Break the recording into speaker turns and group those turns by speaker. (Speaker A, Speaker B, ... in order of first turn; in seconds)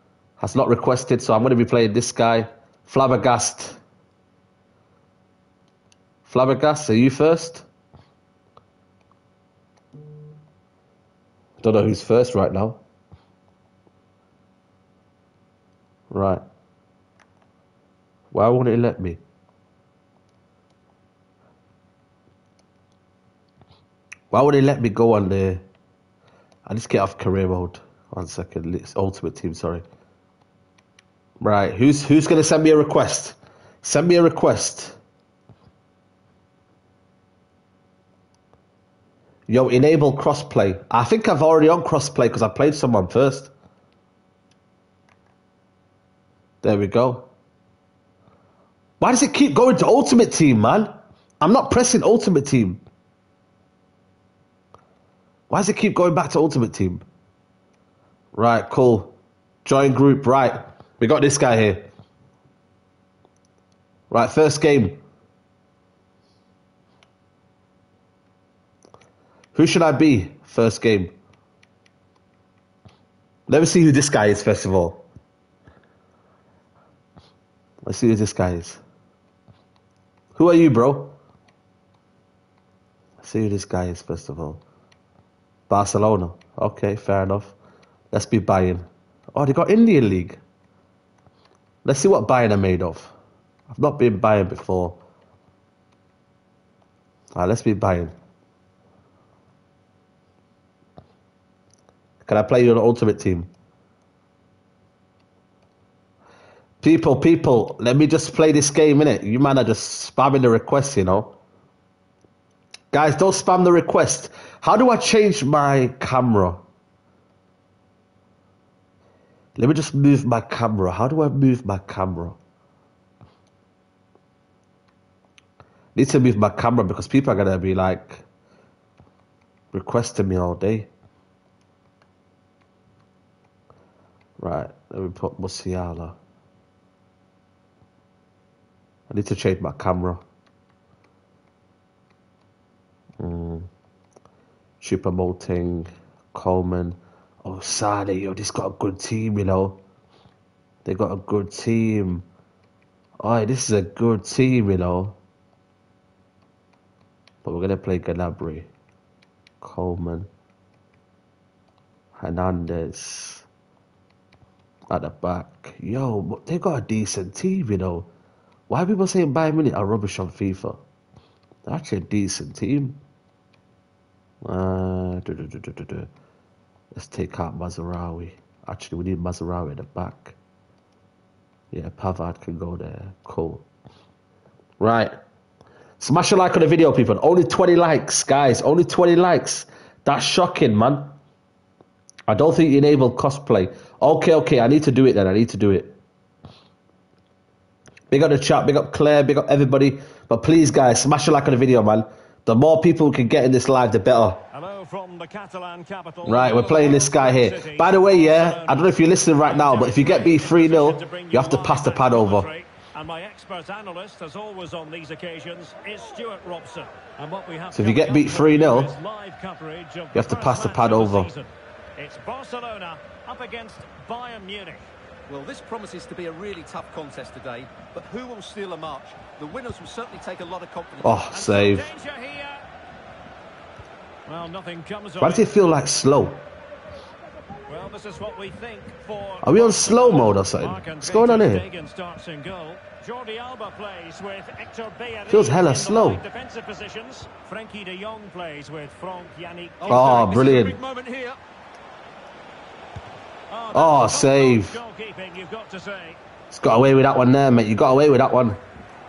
Speaker A: 0.4-3.8, 6.3-7.7, 11.6-12.8, 16.1-16.4, 18.3-19.2, 24.3-25.6, 26.7-29.8, 31.4-35.0, 39.5-43.5, 46.6-47.3, 49.0-52.8, 55.5-57.0, 58.3-59.1, 59.6-61.9, 64.1-65.0, 69.5-71.1, 73.5-75.0, 77.8-78.8, 80.3-81.2, 83.2-84.6, 85.7-87.5, 88.1-90.4, 91.8-93.1, 93.7-95.0, 97.3-98.1, 102.2-103.5, 106.8-111.3, 112.9-116.6, 119.6-122.4, 126.0-128.2, 129.7-130.9, 134.4-136.2, 139.1-140.2, 143.2-143.7, 144.8-149.8, 150.8-152.2, 153.2-155.2, 157.4-158.7, 159.6-160.3, 162.2-163.4, 164.9-168.1, 168.7-170.8, 171.7-173.0, 174.4-176.1, 176.9-180.4, 181.7-183.7, 184.8-185.2, 186.0-191.1, 192.3-196.0, 198.1-204.4, 206.2-212.5, 217.7-218.9, 220.2-221.3, 231.0-231.9, 235.2-236.4, 239.4-241.6, 245.3-246.2, 249.9-250.8, 253.7-254.8, 256.5-258.6
Speaker B: 204.5-224.9, 231.3-232.7, 234.3-235.5, 237.7-250.6, 253.5-256.2
Speaker C: 225.3-231.3, 249.8-251.4